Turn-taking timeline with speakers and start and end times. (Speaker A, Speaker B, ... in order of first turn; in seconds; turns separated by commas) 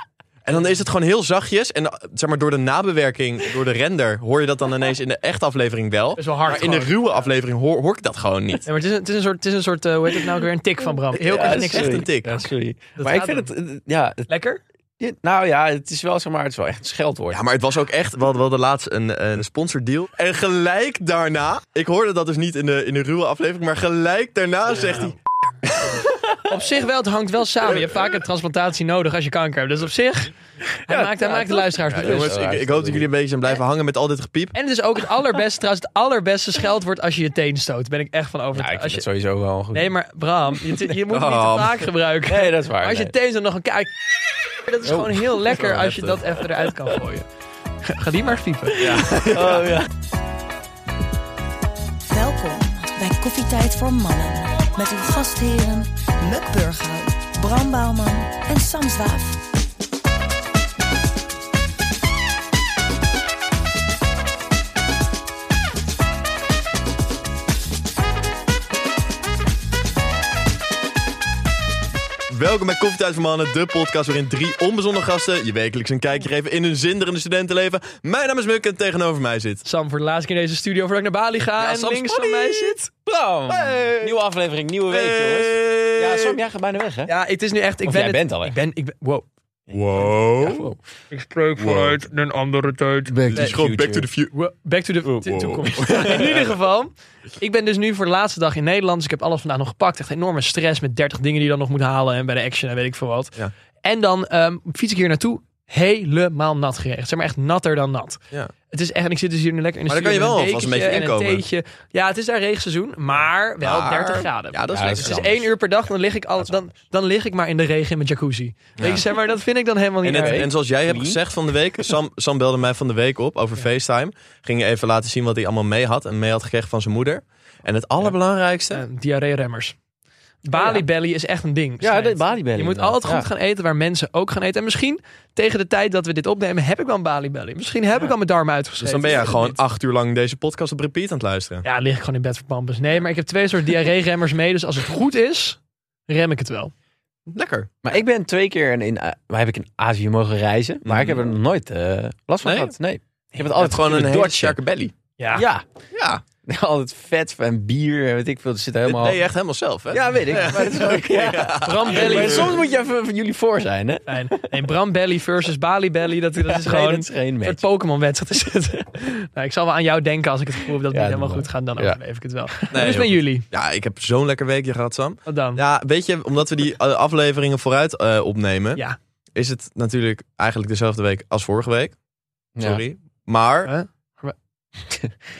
Speaker A: 0.4-8.7, Speaker B: 6.2-6.9, Speaker B: 8.7-13.5, Speaker C: 11.1-14.3, Speaker A: 11.4-12.3, Speaker B: 14.3-14.6, Speaker C: 15.0-17.4, Speaker A: 17.3-26.0, Speaker B: 26.4-30.3, Speaker C: 30.7-33.1, Speaker B: 30.9-32.3, Speaker A: 32.0-34.5, Speaker B: 34.5-39.1, Speaker C: 38.5-39.9, Speaker B: 39.7-47.2, Speaker A: 41.1-41.9, Speaker C: 42.3-43.1, Speaker C: 44.8-45.4, Speaker A: 45.5-46.2, Speaker B: 47.8-49.1, Speaker A: 48.8-49.7, Speaker C: 49.1-49.9, Speaker D: 52.1-59.4, Speaker A: 72.3-79.6, Speaker B: 79.6-82.9, Speaker A: 81.6-82.8, Speaker C: 83.0-87.1, Speaker A: 83.5-84.2, Speaker A: 84.9-86.4, Speaker B: 87.0-89.2, Speaker C: 87.8-88.5, Speaker A: 89.7-90.7, Speaker C: 90.4-90.7, Speaker B: 91.1-93.5, Speaker A: 91.6-92.0, Speaker C: 93.1-94.1, Speaker A: 93.3-94.3, Speaker B: 94.3-108.2, Speaker A: 95.2-96.5, Speaker B: 108.7-120.5, Speaker A: 109.9-111.4, Speaker A: 113.6-115.5, Speaker C: 114.7-115.3, Speaker A: 118.8-119.0, Speaker A: 120.0-128.8, Speaker C: 120.1-121.2, Speaker B: 128.7-129.7, Speaker B: 130.4-139.6, Speaker C: 130.5-130.8, Speaker C: 131.8-133.3, Speaker A: 138.8-141.6, Speaker B: 141.6-146.7, Speaker A: 147.3-147.7, Speaker C: 147.8-154.6, Speaker A: 150.8-151.3, Speaker A: 152.4-152.8, Speaker A: 153.4-154.9, Speaker B: 155.2-155.4, Speaker C: 155.3-155.6, Speaker A: 155.9-156.2, Speaker C: 156.4-159.2, Speaker A: 158.8-162.5, Speaker C: 159.9-164.5, Speaker B: 161.6-162.6, Speaker B: 164.1-173.4, Speaker C: 166.4-167.6, Speaker C: 170.9-172.0, Speaker C: 172.5-172.8, Speaker A: 172.7-178.8, Speaker B: 175.3-175.6, Speaker A: 179.3-181.9, Speaker C: 182.6-182.8, Speaker A: 182.6-183.7, Speaker B: 183.6-184.3, Speaker C: 184.9-185.2